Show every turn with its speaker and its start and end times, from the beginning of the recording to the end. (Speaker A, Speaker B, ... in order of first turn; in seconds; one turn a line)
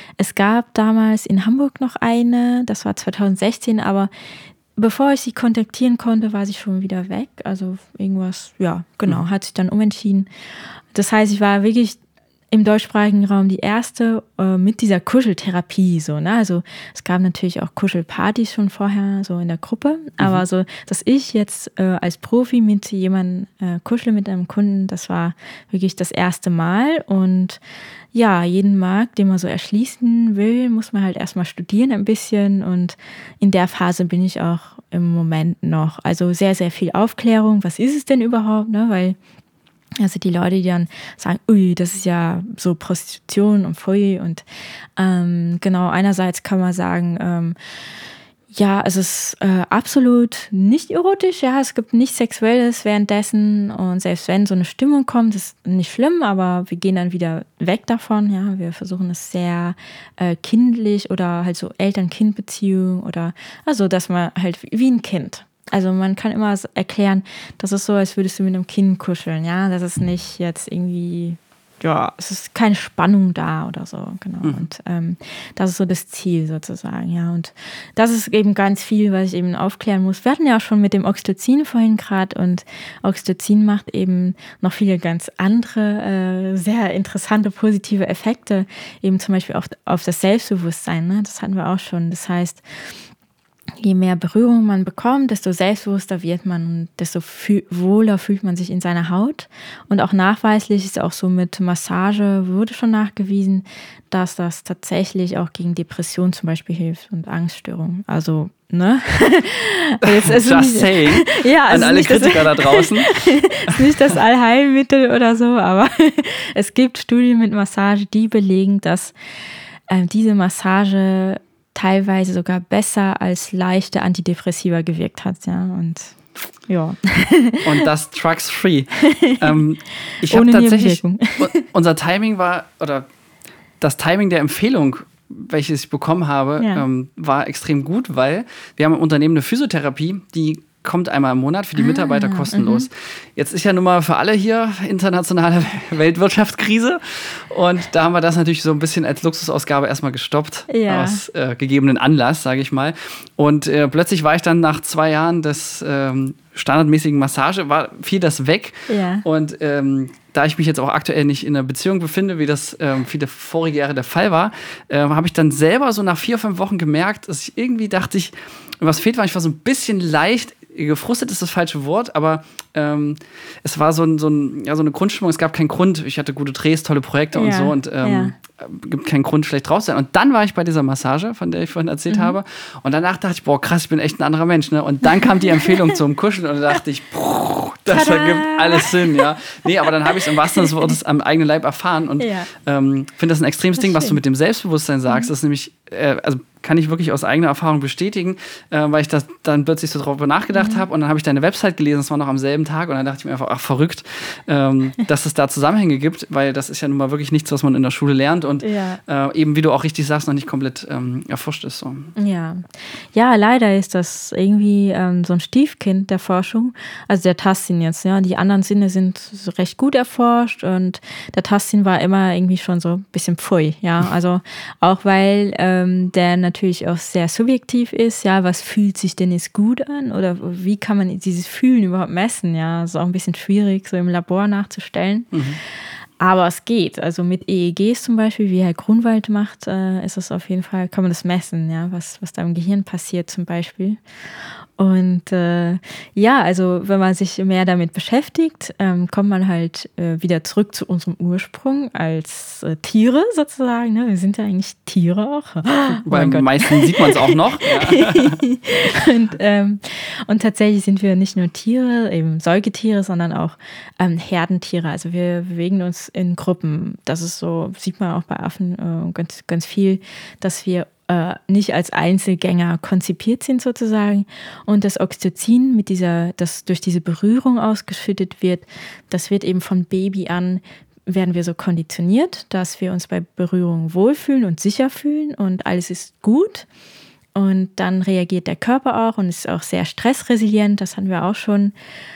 Speaker A: 0.2-4.1
Speaker A: 4.8-10.3
Speaker A: 10.9-12.0
Speaker A: 12.5-27.6
Speaker A: 28.1-39.2
Speaker A: 40.0-44.4
Speaker A: 45.0-47.5
Speaker A: 48.5-92.6
Speaker B: 74.4-74.7
Speaker A: 93.8-119.1
Speaker B: 110.0-114.0
Speaker A: 119.9-126.1
Speaker A: 126.7-127.8
Speaker B: 127.6-133.1
Speaker A: 129.0-129.5
Speaker A: 130.1-131.6
Speaker B: 133.8-212.1
Speaker A: 141.8-142.9
Speaker A: 150.7-151.2
Speaker A: 158.9-159.2
Speaker A: 177.3-178.3
Speaker A: 182.1-182.3
Speaker A: 185.6-185.9
Speaker A: 187.9-189.3
Speaker A: 190.0-190.8
Speaker A: 192.2-192.5
Speaker A: 193.8-194.2
Speaker A: 200.6-200.8
Speaker A: 208.6-209.0
Speaker A: 212.2-212.6
Speaker A: 213.1-235.4
Speaker B: 235.3-235.6
Speaker A: 236.2-244.0
Speaker A: 244.8-286.6
Speaker B: 256.0-258.4
Speaker A: 287.3-291.7